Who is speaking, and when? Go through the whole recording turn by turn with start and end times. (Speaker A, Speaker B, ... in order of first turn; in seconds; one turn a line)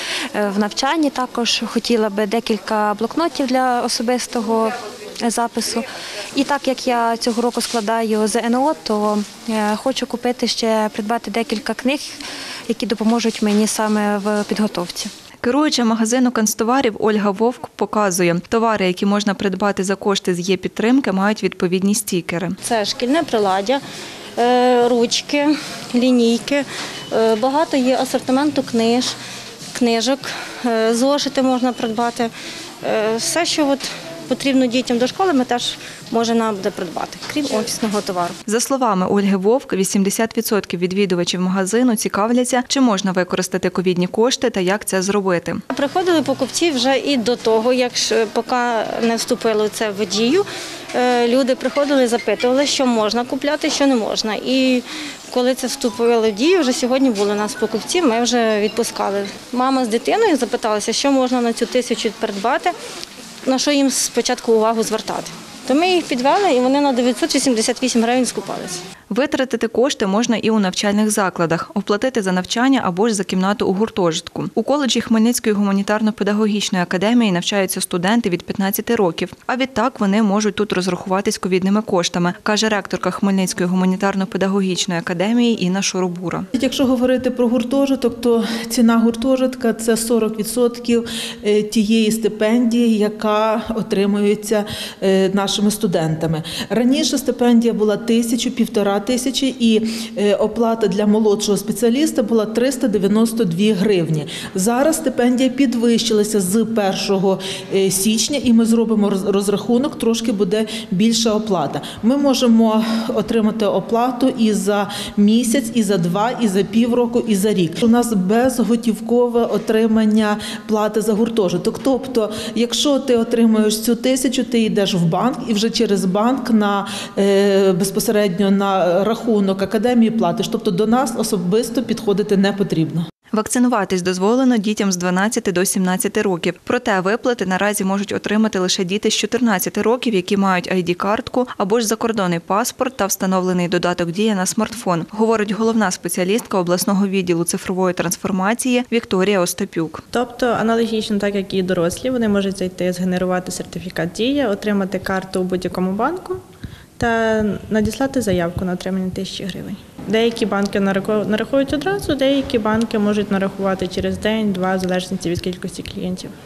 Speaker A: 0.3-12.2
Speaker A: 12.7-15.1
Speaker B: 15.4-22.6
Speaker C: 22.6-23.8
Speaker C: 24.4-29.1
Speaker C: 29.7-32.3
Speaker C: 32.8-38.4
Speaker B: 38.5-45.6
Speaker C: 45.7-62.7
Speaker C: 63.5-68.8
Speaker B: 69.1-86.5
Speaker D: 86.5-133.1
Speaker B: 133.3-150.0
Speaker E: 150.1-156.4
Speaker E: 157.0-166.3